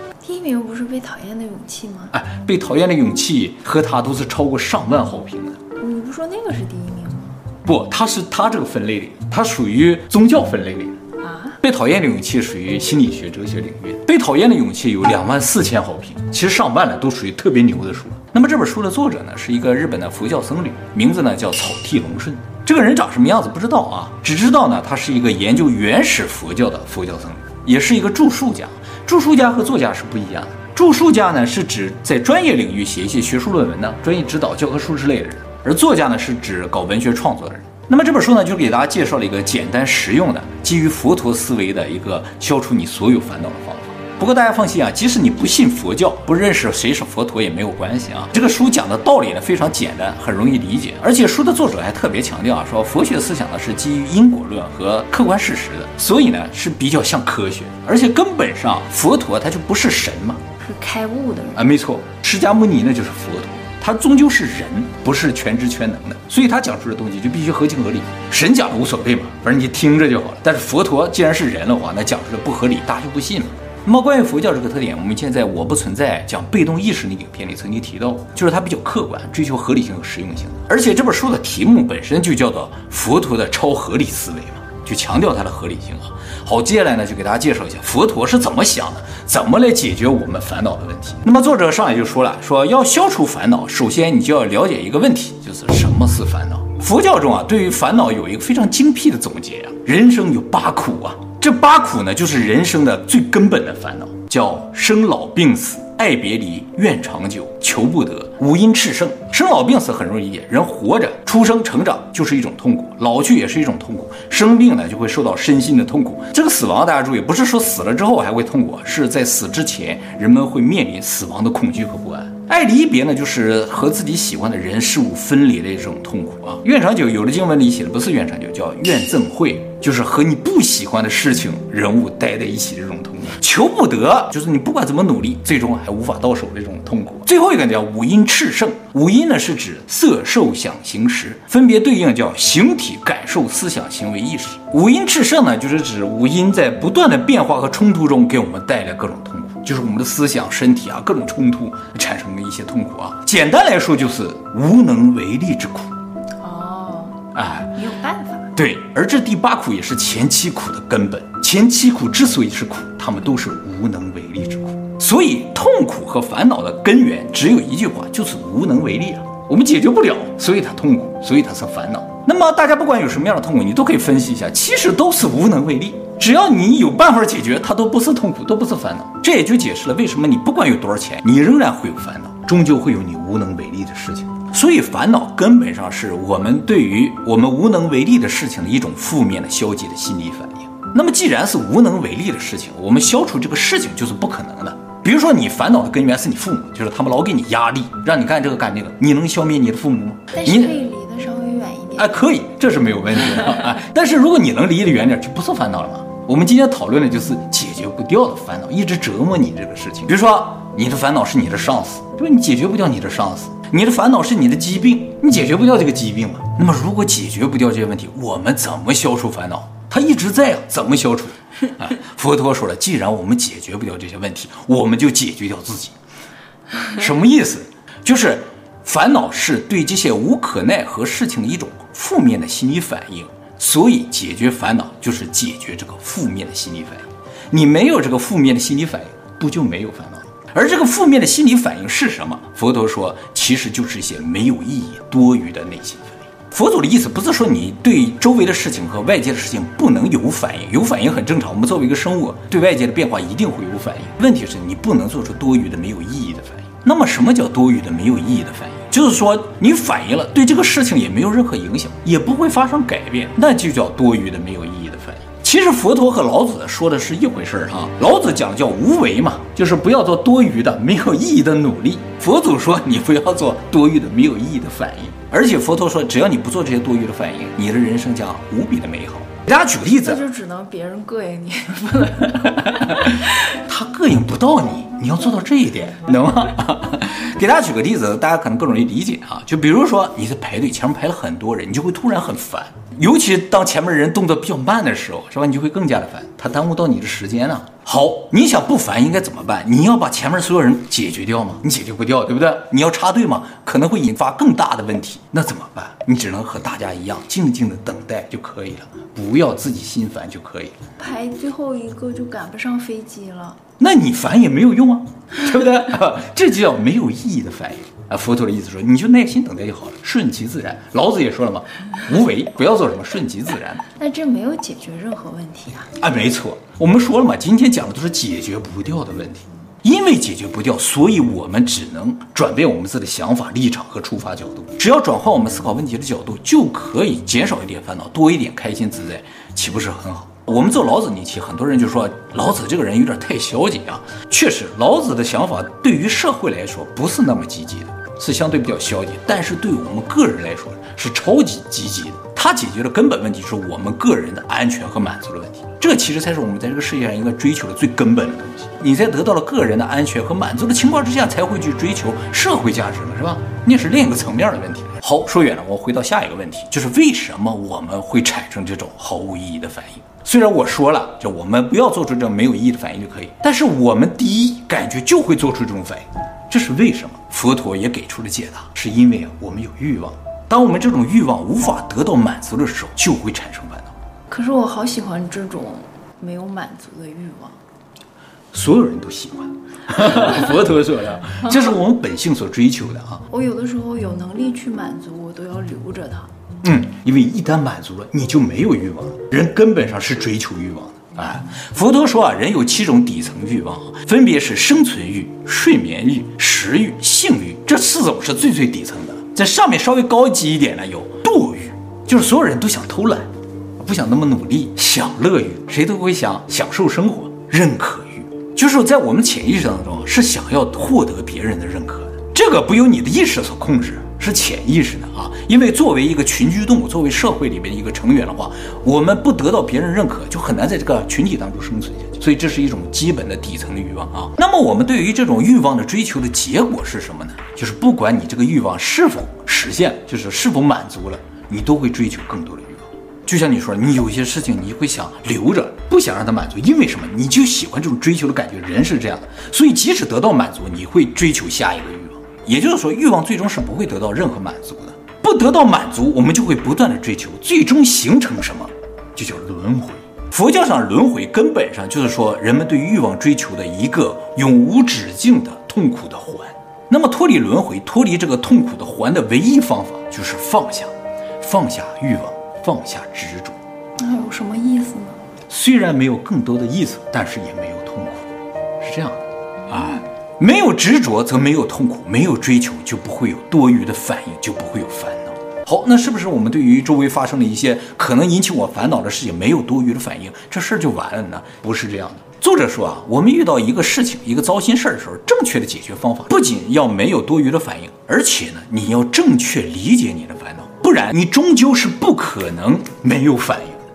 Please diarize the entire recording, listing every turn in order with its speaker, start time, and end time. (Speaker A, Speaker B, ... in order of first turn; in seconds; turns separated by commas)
Speaker A: 0.2-2.1, Speaker B: 2.1-5.6, Speaker A: 5.8-7.4, Speaker B: 7.6-11.0, Speaker A: 11.2-11.6, Speaker B: 11.6-60.4, Speaker A: 60.6-61.6, Speaker B: 61.5-155.9, Speaker A: 156.4-158.5, Speaker B: 157.3-157.7, Speaker B: 158.6-200.7, Speaker A: 200.3-202.2, Speaker B: 202.0-225.9, Speaker B: 226.8-280.2, Speaker A: 279.9-283.4, Speaker B: 282.6-310.8, Speaker A: 311.0-313.6, Speaker B: 313.8-323.8, Speaker A: 323.9-325.9, Speaker B: 326.0-383.9, Speaker A: 384.3-387.6, Speaker B: 388.5-393.2, Speaker A: 393.3-396.3, Speaker B: 396.6-470.9, Speaker B: 471.4-473.6, Speaker A: 474.0-475.2, Speaker B: 475.5-478.3, Speaker B: 478.8-503.8